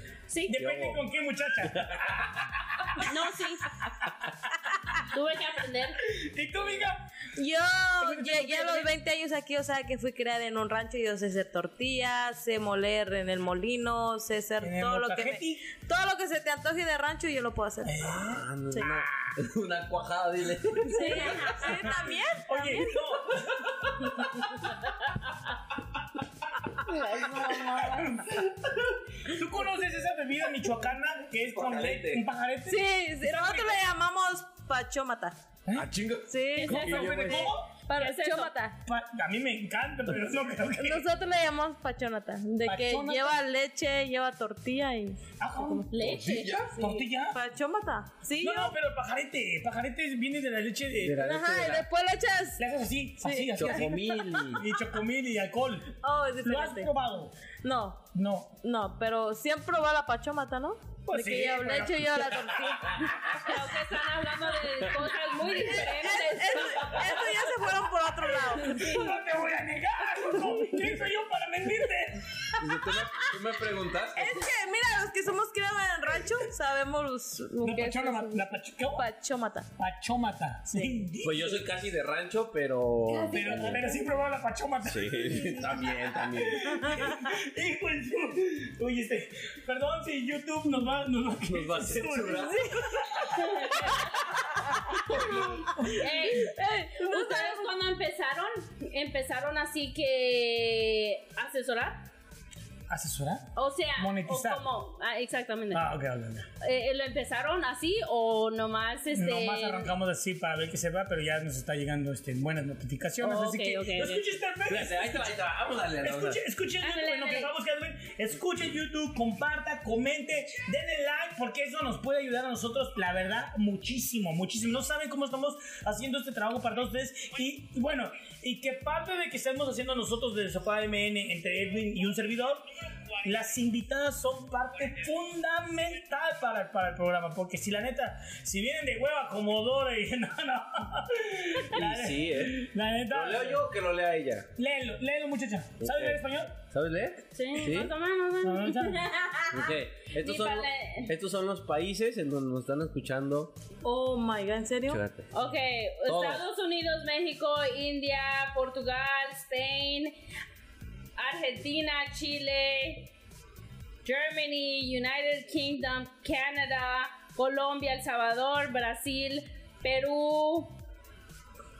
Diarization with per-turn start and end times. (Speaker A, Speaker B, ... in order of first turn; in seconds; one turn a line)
Speaker A: 0.3-0.6
Speaker B: 0.5-3.2
Speaker C: 0.5-1.0
Speaker C: 1.6-2.3
Speaker A: 3.0-3.7
Speaker A: 5.0-6.0
Speaker B: 6.1-7.0
Speaker D: 7.4-18.1
Speaker B: 8.0-8.9
Speaker B: 14.6-15.7
Speaker B: 17.8-19.3
Speaker C: 18.0-21.6
Speaker D: 20.9-23.2
Speaker A: 21.0-21.8
Speaker B: 21.0-24.7
Speaker A: 26.9-28.1
Speaker D: 27.1-28.0
Speaker B: 27.2-33.8
Speaker C: 31.5-32.2
Speaker D: 32.7-35.4
Speaker C: 35.7-37.5
Speaker D: 36.3-38.8
Speaker A: 36.6-38.5
Speaker B: 36.7-37.7
Speaker B: 38.9-41.0
Speaker D: 40.8-45.9
Speaker B: 42.6-43.4
Speaker B: 45.4-46.1
Speaker A: 45.9-46.6
Speaker C: 46.0-46.8
Speaker B: 46.8-47.4
Speaker D: 46.8-48.8
Speaker B: 48.4-51.2
Speaker C: 51.0-51.9
Speaker D: 51.2-52.6
Speaker B: 52.6-54.0
Speaker D: 53.2-54.6
Speaker C: 53.6-54.7
Speaker B: 54.6-55.9
Speaker D: 56.0-56.9
Speaker B: 56.4-57.3
Speaker D: 57.6-58.0
Speaker B: 58.1-58.5
Speaker D: 58.6-63.3
Speaker B: 61.1-63.6
Speaker A: 63.4-67.5
Speaker D: 65.2-69.1
Speaker B: 65.5-65.9
Speaker B: 67.0-67.3
Speaker B: 68.3-72.7
Speaker A: 68.6-69.1
Speaker C: 72.6-74.4
Speaker D: 72.9-73.4
Speaker D: 74.2-79.7
Speaker B: 77.6-79.0
Speaker B: 79.8-81.7
Speaker D: 80.8-81.0
Speaker C: 81.2-83.9
Speaker B: 83.3-96.3
Speaker C: 84.8-87.0
Speaker D: 86.8-87.2
Speaker C: 91.5-93.0
Speaker A: 93.6-94.1
Speaker A: 95.1-102.0
Speaker D: 96.3-97.7
Speaker B: 102.9-104.6
Speaker A: 103.6-105.9
Speaker B: 105.7-106.5
Speaker A: 106.6-109.9
Speaker B: 109.1-115.3
Speaker A: 113.2-114.2
Speaker C: 114.7-116.4
Speaker B: 116.0-132.7
Speaker A: 116.8-117.5
Speaker B: 133.2-143.6
Speaker C: 141.7-144.5
Speaker B: 144.6-146.6
Speaker C: 145.8-147.9
Speaker A: 147.3-151.1
Speaker B: 148.4-149.1
Speaker C: 149.5-153.5
Speaker D: 153.8-155.0
Speaker C: 154.9-155.3
Speaker A: 155.3-160.2
Speaker C: 156.1-156.4
Speaker A: 161.2-163.1
Speaker A: 164.1-170.7